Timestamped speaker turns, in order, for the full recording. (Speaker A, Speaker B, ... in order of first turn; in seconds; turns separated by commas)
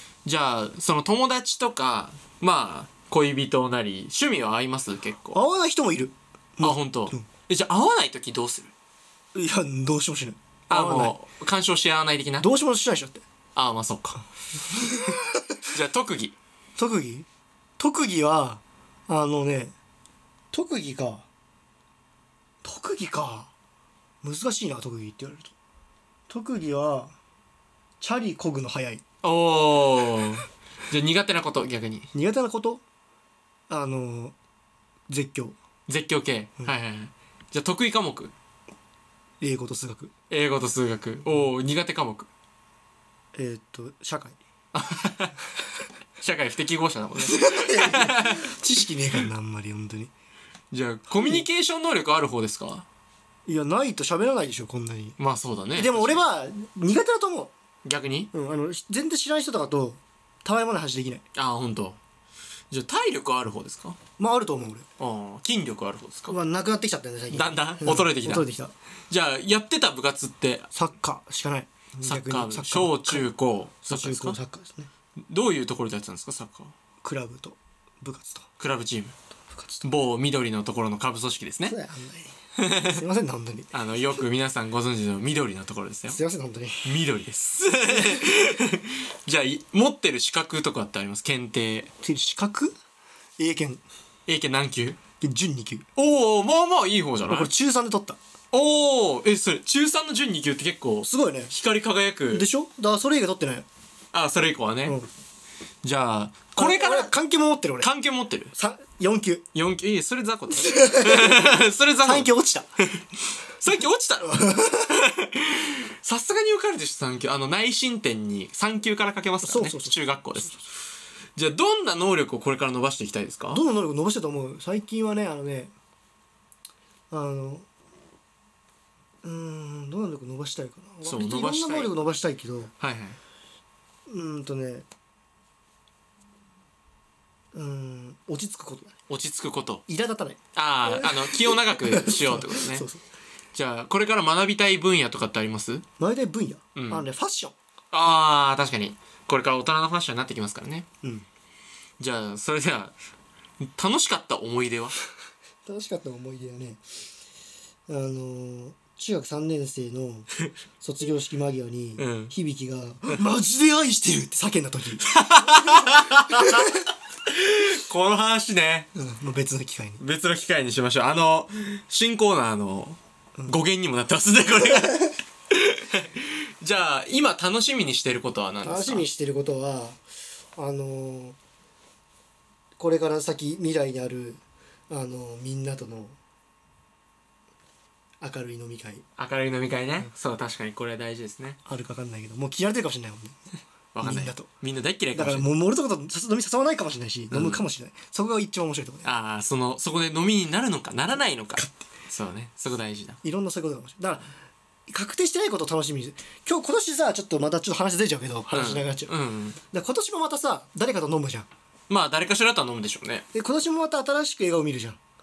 Speaker A: 0.2-5.4, Speaker B: 5.3-7.2, Speaker A: 6.6-8.7, Speaker B: 9.3-11.2, Speaker A: 10.7-12.5, Speaker B: 12.4-13.2, Speaker A: 13.6-14.2, Speaker B: 14.7-15.6, Speaker A: 14.8-15.1, Speaker A: 15.7-16.4, Speaker B: 16.8-17.3, Speaker B: 17.8-19.7, Speaker B: 20.5-21.3, Speaker B: 22.6-23.5, Speaker B: 24.2-25.5, Speaker B: 26.3-27.2, Speaker B: 28.0-29.0, Speaker A: 29.2-32.1, Speaker B: 32.1-32.8, Speaker B: 33.7-34.4, Speaker B: 35.1-35.6, Speaker A: 35.9-38.3, Speaker B: 39.4-40.1, Speaker A: 40.3-42.3, Speaker B: 43.3-44.4, Speaker A: 44.7-45.4, Speaker A: 46.2-48.5, Speaker B: 47.2-50.1, Speaker A: 50.7-52.9, Speaker B: 51.2-51.4, Speaker B: 53.5-55.2, Speaker A: 55.2-56.2, Speaker B: 55.8-57.5, Speaker A: 57.9-58.3, Speaker B: 58.3-61.2, Speaker A: 61.4-62.0, Speaker A: 62.7-64.0, Speaker B: 64.2-64.9, Speaker A: 65.0-66.4, Speaker B: 66.3-68.7, Speaker A: 67.3-68.5, Speaker A: 69.1-70.7, Speaker B: 70.7-73.3, Speaker A: 72.0-74.4, Speaker B: 73.8-74.9, Speaker A: 75.3-76.7, Speaker B: 77.0-78.5, Speaker A: 78.6-79.1, Speaker B: 79.5-79.9, Speaker A: 79.8-81.8, Speaker B: 81.7-83.7, Speaker A: 82.6-83.0, Speaker A: 83.7-86.2, Speaker B: 86.1-86.9, Speaker A: 86.8-91.9, Speaker B: 87.9-88.2, Speaker B: 92.0-92.8, Speaker B: 93.4-93.8, Speaker A: 94.3-95.0, Speaker B: 95.2-95.9, Speaker A: 96.0-97.5, Speaker B: 97.3-98.2, Speaker A: 98.5-102.5, Speaker B: 101.0-101.5, Speaker B: 102.3-103.7, Speaker A: 104.1-105.0, Speaker A: 105.8-107.1, Speaker B: 106.6-107.9, Speaker A: 107.8-108.5, Speaker B: 108.5-109.5, Speaker A: 109.5-112.3, Speaker B: 110.5-111.5, Speaker B: 112.0-112.7, Speaker A: 113.6-120.6, Speaker B: 114.2-115.0, Speaker B: 119.4-120.6, Speaker A: 121.4-123.6, Speaker B: 123.5-125.7, Speaker B: 127.1-127.7, Speaker B: 129.2-132.7, Speaker A: 131.1-131.9, Speaker A: 132.8-133.2, Speaker B: 134.1-134.9, Speaker B: 137.5-139.0, Speaker A: 139.1-139.8, Speaker B: 139.9-143.0, Speaker A: 140.6-142.9, Speaker A: 143.5-145.8, Speaker B: 146.0-147.6, Speaker A: 146.8-147.1, Speaker A: 147.9-150.9, Speaker A: 152.0-152.9, Speaker A: 153.6-155.0, Speaker B: 155.7-156.8, Speaker B: 157.9-160.3, Speaker B: 160.8-166.8, Speaker A: 162.0-162.3, Speaker A: 165.0-168.9, Speaker B: 168.9-170.0, Speaker A: 170.0-179.1, Speaker B: 174.6-175.1, Speaker B: 178.6-180.0, Speaker B: 180.6-181.4, Speaker B: 182.8-186.2, Speaker B: 188.2-189.1, Speaker A: 189.2-191.6, Speaker B: 191.7-194.5, Speaker A: 193.9-195.5, Speaker B: 195.1-199.1, Speaker A: 197.3-197.6, Speaker A: 199.0-203.2, Speaker B: 203.2-204.3, Speaker B: 204.9-209.1, Speaker A: 208.5-209.6, Speaker B: 209.6-211.5, Speaker A: 211.9-213.3, Speaker B: 213.3-215.0